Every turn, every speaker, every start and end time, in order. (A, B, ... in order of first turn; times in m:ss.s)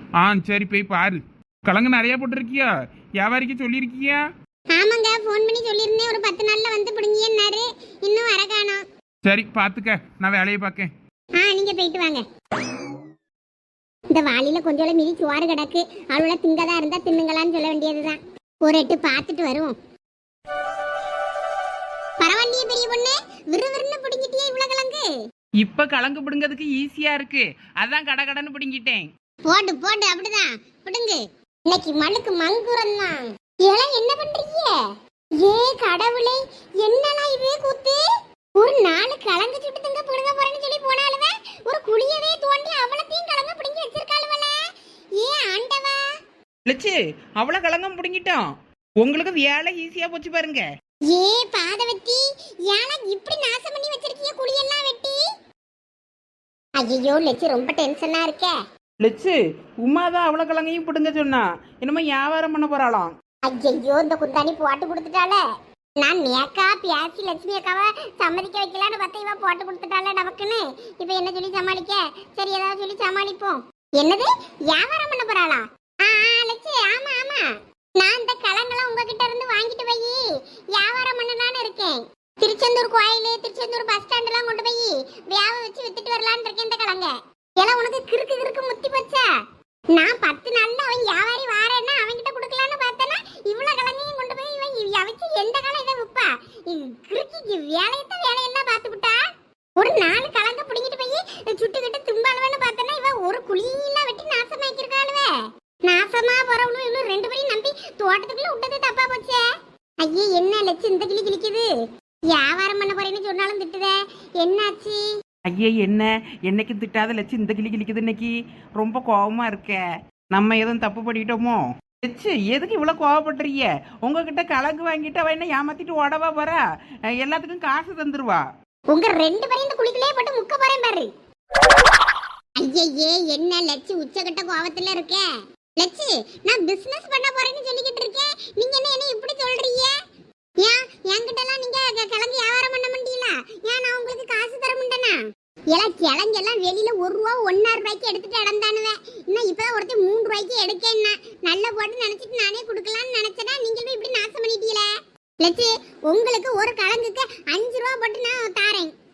0:00.2-0:04.2 A
0:04.8-0:08.8 B
0:09.2-0:10.9 A
0:11.4-0:12.2 B
0:14.1-0:19.8 B
0:22.2-0:25.0 B
0:25.6-0:29.1 C
0:29.5-0:34.8 B
0:35.4-0:38.0 B
0:38.6-0:44.6 B
0:45.2-0:46.0 B
0:46.7-0:48.5 C
0:49.0-0:50.6 C
0:51.1-0:55.2 B
0:56.8-0:58.6 B
0:59.0-1:03.1 C
1:03.5-1:05.4 B
1:06.0-1:29.3 B
1:29.9-1:39.3 B
1:39.8-1:45.3 B
1:45.9-1:49.4 B
1:50.0-1:51.7 B
1:52.3-1:55.0 B
1:55.5-2:08.4 C
2:08.9-2:11.1 B
2:12.6-2:15.3 B
2:15.8-2:20.0 B
2:20.6-2:25.2 B
2:25.7-2:34.9 B
2:35.4-2:38.9 B